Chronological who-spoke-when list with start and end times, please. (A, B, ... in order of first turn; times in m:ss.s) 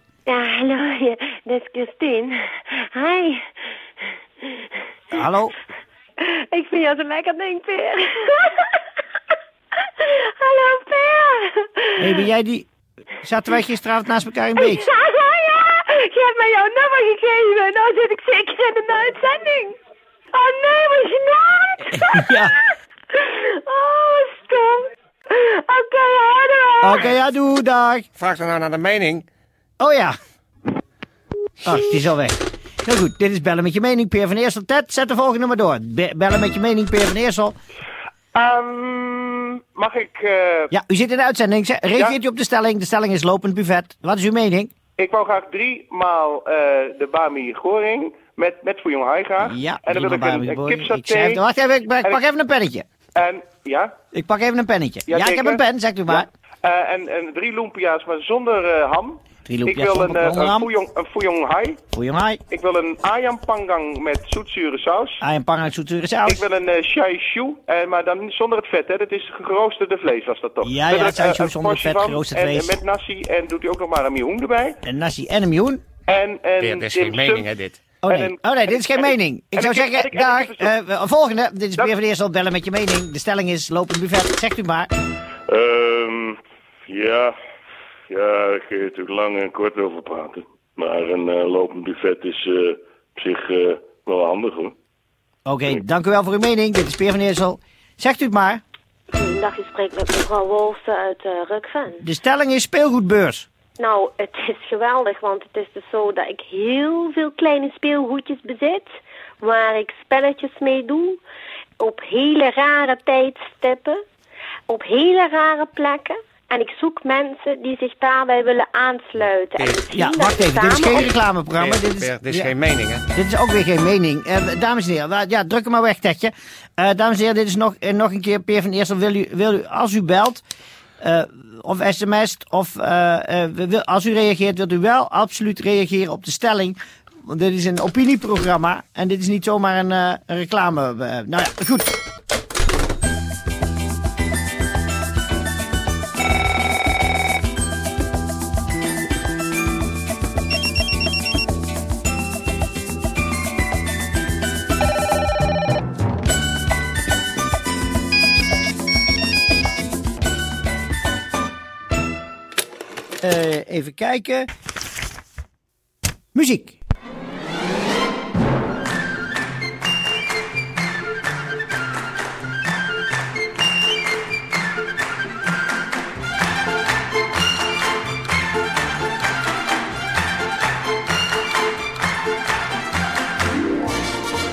0:00.3-0:03.4 A
0:05.1-0:05.5 B
0:06.2-0:08.8 A
0:10.0-0:11.9 A
0:12.0-0:12.7 B
0:13.2-0:14.8 B
0:14.6-0:19.7 A
0:20.3-0:27.1 A
0:21.9-0:22.5 B
0:26.8-0:28.1 B
0:28.2-0:29.2 C
0:29.8-0:30.2 B
0:31.6-0:37.5 B
0:38.4-0:40.7 D
0:40.7-0:44.7 B
0:45.0-0:51.4 D
0:49.4-0:52.8 B
0:53.2-0:53.9 D
0:54.1-0:56.3 B
0:55.1-1:01.8 D
0:59.4-1:00.7 B
1:01.9-1:02.4 B
1:02.5-1:05.1 D
1:05.2-1:06.4 B
1:06.2-1:14.7 D
1:10.6-1:12.7 B
1:14.8-1:15.8 B
1:16.1-1:17.4 D
1:16.6-1:17.8 C
1:18.0-1:24.9 B
1:18.1-1:20.7 D
1:25.5-1:27.3 E
1:28.1-1:34.7 E
1:35.4-1:38.6 B
1:39.1-1:42.0 A
1:42.0-1:43.5 B
1:43.8-1:48.8 A
1:49.4-1:51.2 A
1:51.8-1:54.0 A
1:54.7-2:01.1 A
1:59.9-2:02.5 B
2:01.6-2:03.0 C
2:03.1-2:10.4 B
2:11.0-2:22.0 B
2:43.2-2:44.5 B
2:46.3-2:46.8 B